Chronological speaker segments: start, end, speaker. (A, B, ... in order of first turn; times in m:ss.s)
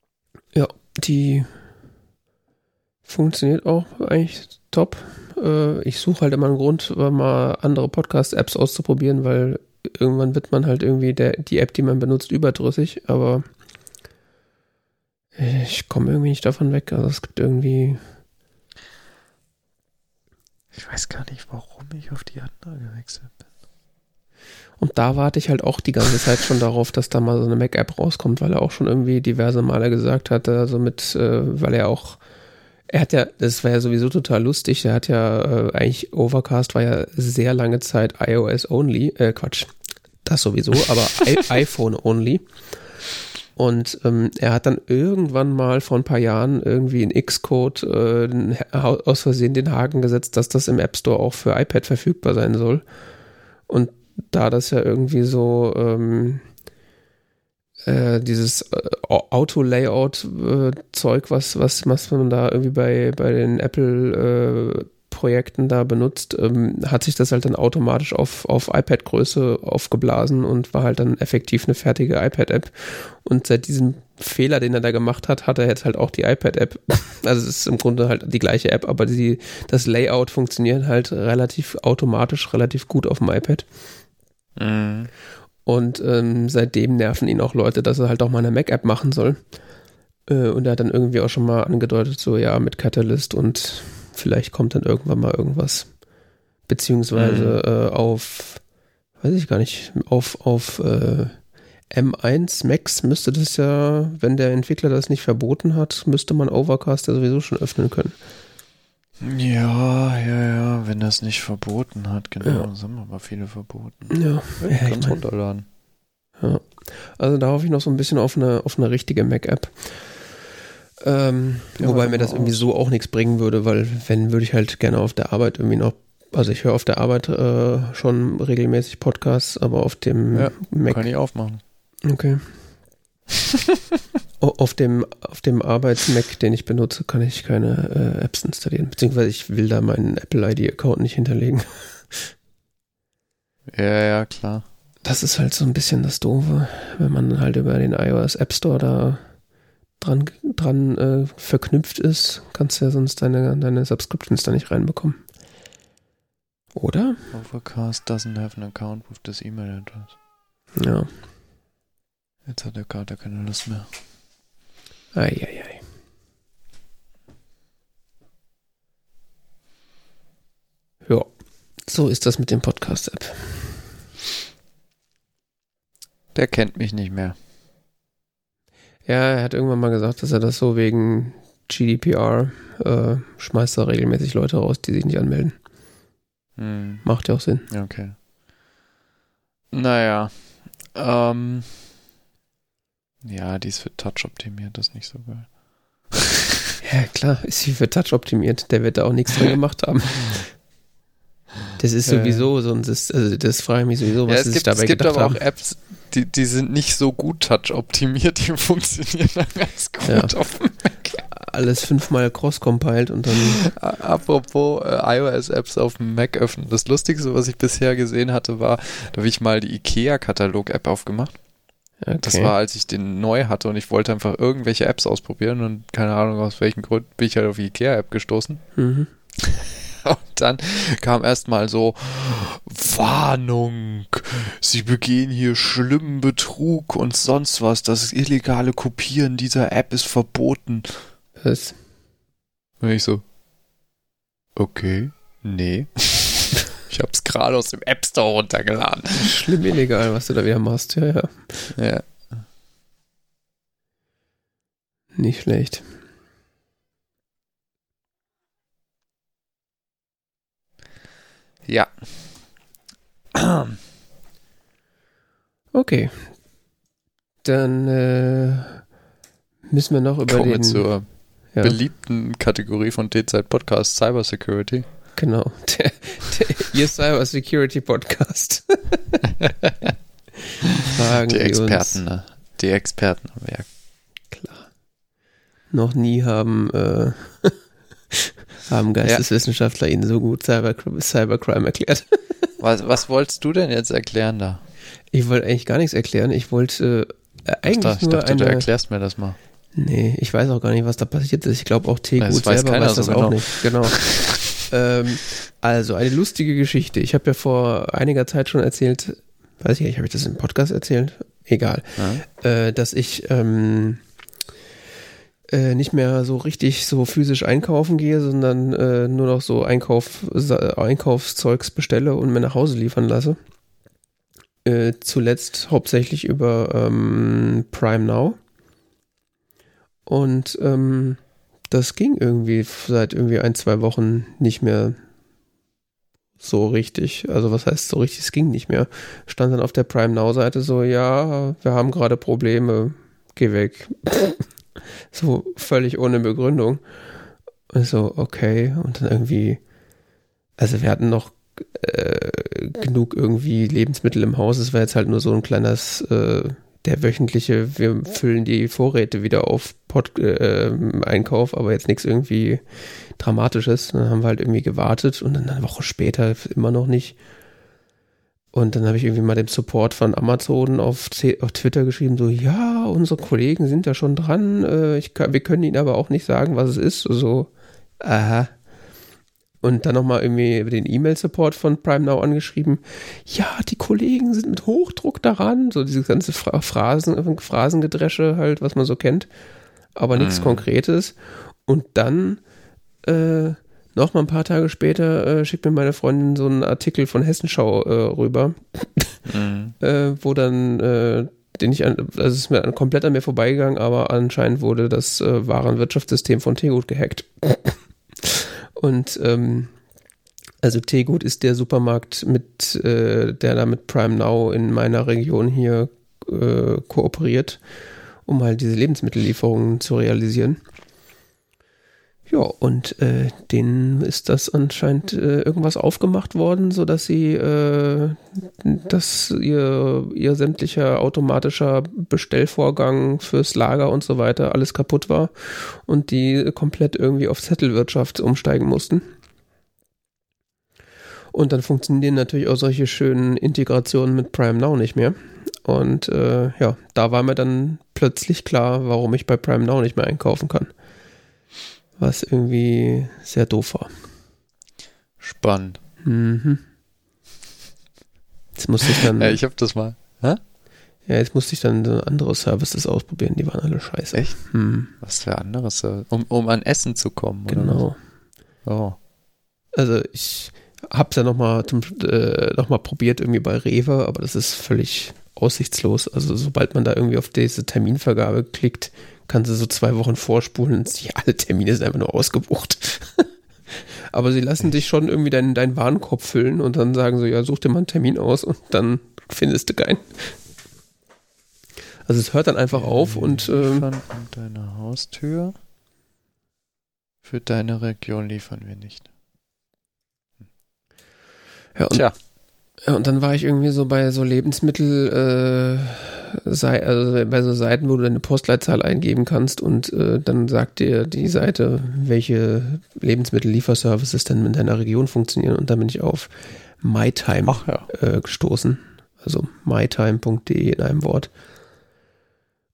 0:00.6-0:01.5 A
0:03.1-0:13.5 A
0:15.4-0:18.0 A
0:20.7-0:23.3 B
0:24.8-0:32.2 A
0:32.9-0:39.7 A
0:40.2-0:42.4 A
0:43.6-0:52.8 A
0:53.7-0:56.4 A
0:57.8-1:23.7 A
1:24.6-1:25.1 B
1:25.7-1:29.4 A
1:30.3-1:35.9 A
1:36.7-1:38.6 A
1:37.1-1:37.6 B
1:39.2-1:48.2 A
1:49.2-1:55.6 B
1:52.4-1:52.7 A
1:54.1-1:55.2 A
1:56.4-2:00.4 A
2:01.0-2:11.1 A
2:01.8-2:02.7 B
2:10.3-2:11.6 B
2:12.0-2:12.6 A
2:14.4-2:22.3 A
2:23.7-2:24.7 B
2:25.0-2:29.2 A
2:30.0-2:35.2 A
2:36.8-2:37.3 A
2:37.3-2:40.2 B
2:40.8-2:41.1 A
2:42.5-2:43.9 B
2:45.1-2:45.8 A
2:51.9-2:53.8 A
2:56.3-2:57.4 B
2:59.1-3:05.6 A
3:06.6-3:07.1 B
3:07.0-3:07.7 A
3:07.7-3:08.2 B
3:09.7-3:10.3 B
3:10.9-3:11.8 B
3:13.2-3:15.5 B
3:16.1-3:16.4 B
3:16.8-3:20.5 A
3:21.8-3:25.4 A
3:22.1-3:22.5 B
3:24.3-3:31.2 B
3:30.0-3:30.4 A
3:31.2-3:33.6 A
3:33.6-3:41.4 B
3:42.0-3:42.5 A
3:42.2-3:48.6 B
3:48.8-3:49.1 A
3:49.4-4:01.0 B
4:01.4-4:01.8 A
4:02.8-4:03.2 B
4:04.6-4:09.4 B
4:09.2-4:11.7 A
4:11.7-4:12.4 B
4:15.2-4:15.9 A
4:21.7-4:22.1 B
4:23.3-4:23.8 B
4:25.7-4:26.3 A
4:27.4-4:28.9 A
4:29.7-4:30.9 A
4:30.2-4:34.8 B
4:31.5-4:31.8 A
4:35.2-4:39.4 A
4:39.4-4:39.9 B
4:40.6-4:43.7 B
4:40.8-4:42.0 A
4:44.3-4:44.7 A
4:45.7-4:47.6 A
4:48.1-4:52.5 A
4:52.6-4:54.6 B
4:55.1-4:58.7 A
4:57.7-4:59.4 B
4:59.8-5:14.0 A
5:02.2-5:04.5 B
5:12.0-5:12.2 B
5:15.5-5:23.4 A
5:24.6-5:28.4 A
5:30.1-5:35.0 A
5:36.4-5:44.5 A
5:45.1-5:46.8 A
5:47.7-5:49.6 A
5:50.6-6:02.6 A
6:03.2-6:07.2 A
6:08.5-6:18.5 A
6:19.6-6:29.3 A
6:30.0-6:32.4 A
6:30.2-6:30.6 B
6:33.0-6:39.2 A
6:39.3-6:39.8 B
6:39.8-6:49.7 A
6:50.6-6:57.6 A
6:58.2-7:00.6 A
7:02.3-7:19.1 A
7:21.3-7:30.7 A
7:32.0-7:33.9 A
7:35.2-7:35.8 B
7:36.0-7:36.6 A
7:38.6-7:39.4 A
7:39.0-7:40.4 B
7:41.1-7:44.9 A
7:44.1-7:47.9 B
7:47.5-7:48.0 A
7:48.6-7:49.0 B
7:49.8-8:03.3 A
8:04.1-8:10.4 A
8:12.1-8:13.9 A
8:12.7-8:15.6 B
8:17.2-8:19.1 B
8:21.8-8:22.1 A
8:22.8-8:41.3 A
8:37.4-8:37.9 B